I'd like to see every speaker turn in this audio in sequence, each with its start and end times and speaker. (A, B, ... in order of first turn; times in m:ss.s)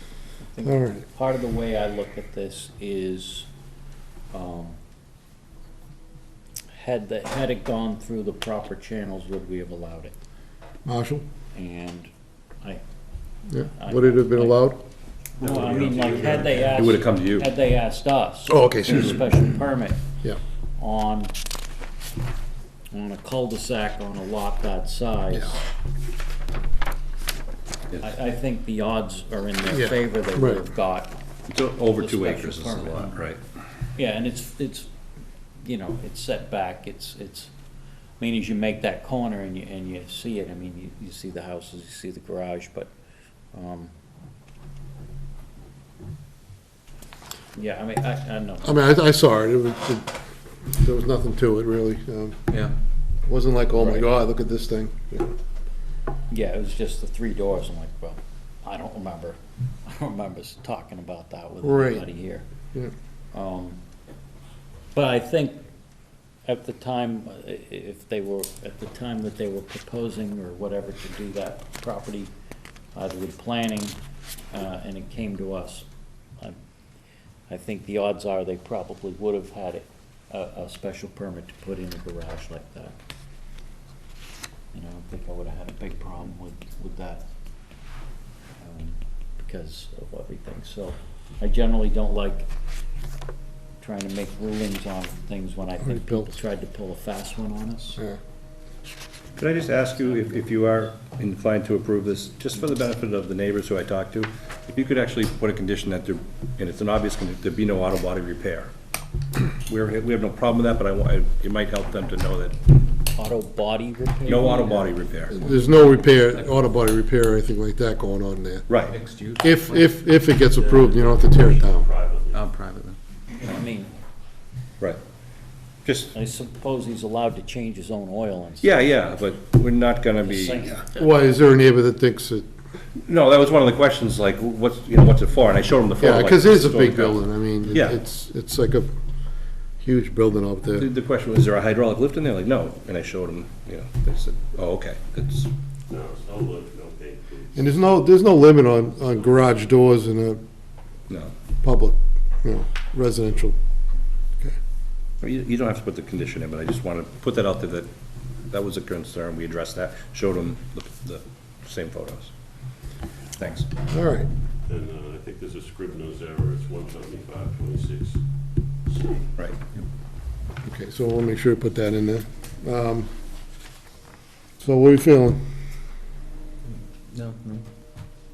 0:00.5-0:03.5 A
0:00.6-0:01.0 B
0:04.3-0:04.8 A
0:06.7-0:10.2 A
0:10.8-0:11.2 B
0:11.5-0:12.1 A
0:13.5-0:14.8 B
0:13.8-0:14.7 A
0:15.4-0:16.7 C
0:15.4-0:20.0 A
0:16.6-0:17.5 D
0:18.5-0:19.1 B
0:20.8-0:21.3 A
0:22.9-0:25.6 A
0:28.0-0:31.1 A
0:29.7-0:30.6 B
0:31.5-0:33.4 D
0:31.9-0:33.2 A
0:34.0-0:34.9 A
0:35.6-0:37.5 A
0:38.2-0:42.9 A
0:43.5-0:43.9 A
0:47.6-0:48.8 A
0:48.6-0:50.2 B
0:50.7-0:52.5 B
0:53.3-0:55.3 B
0:53.8-0:54.1 A
0:56.3-1:02.5 A
1:01.6-1:02.0 B
1:03.3-1:03.8 A
1:04.9-1:05.6 A
1:06.5-1:12.3 A
1:13.0-1:14.0 A
1:14.5-1:15.9 A
1:17.5-1:23.0 A
1:24.7-1:27.2 A
1:28.6-1:32.5 A
1:33.8-1:38.0 A
1:35.8-1:36.3 B
1:39.4-1:48.7 D
1:49.7-1:52.6 D
1:53.2-1:55.0 A
1:54.3-1:55.4 D
1:55.3-1:58.7 B
1:55.5-1:56.6 E
1:58.7-1:59.0 D
1:58.9-2:01.4 E
1:59.4-2:01.9 B
2:01.4-2:02.5 C
2:02.3-2:03.0 E
2:03.4-2:03.9 A
2:05.8-2:06.1 D
2:06.1-2:08.8 A
2:08.6-2:10.6 D
2:10.2-2:11.0 A
2:10.9-2:12.5 B
2:13.0-2:18.0 D
2:16.0-2:18.9 B
2:19.8-2:20.9 B
2:20.8-2:25.5 D
2:25.9-2:27.8 C
2:27.6-2:30.4 B
2:31.1-2:31.4 D
2:31.6-2:33.6 B
2:35.2-2:37.9 D
2:38.5-2:42.3 D
2:43.4-2:43.7 D
2:43.9-2:44.3 B
2:44.7-2:48.2 C
2:48.9-2:49.3 C
2:50.6-2:53.1 B
2:54.6-2:55.4 B
2:56.7-2:57.7 E